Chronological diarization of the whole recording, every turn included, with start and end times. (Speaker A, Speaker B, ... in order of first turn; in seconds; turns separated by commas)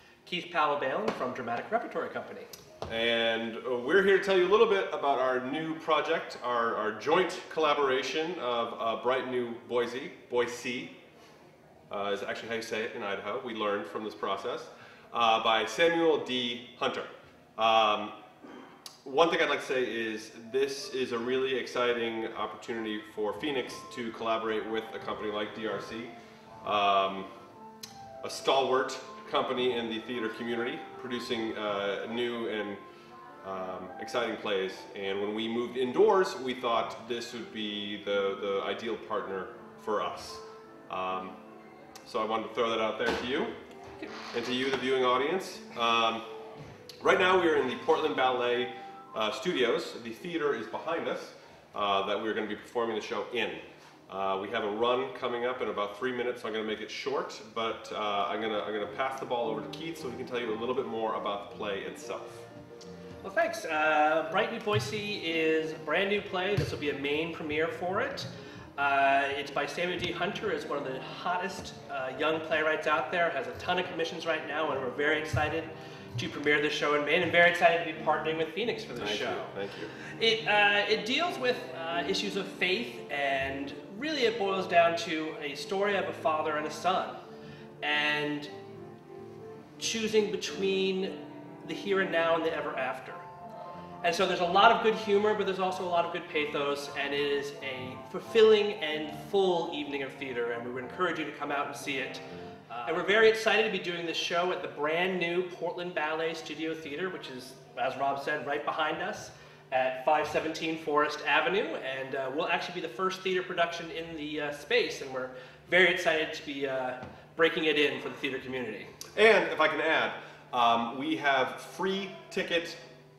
Speaker A: 0.2-2.5, Speaker B: 2.9-10.9, Speaker B: 11.9-18.1, Speaker B: 19.0-26.1, Speaker B: 26.6-27.3, Speaker B: 28.2-32.8, Speaker B: 33.4-41.4, Speaker B: 42.0-43.5, Speaker B: 44.3-46.2, Speaker B: 47.0-62.5, Speaker A: 63.2-79.5, Speaker B: 79.0-79.9, Speaker A: 80.2-87.2, Speaker A: 87.8-88.5, Speaker A: 89.8-93.2, Speaker A: 94.0-118.9, Speaker B: 119.1-122.8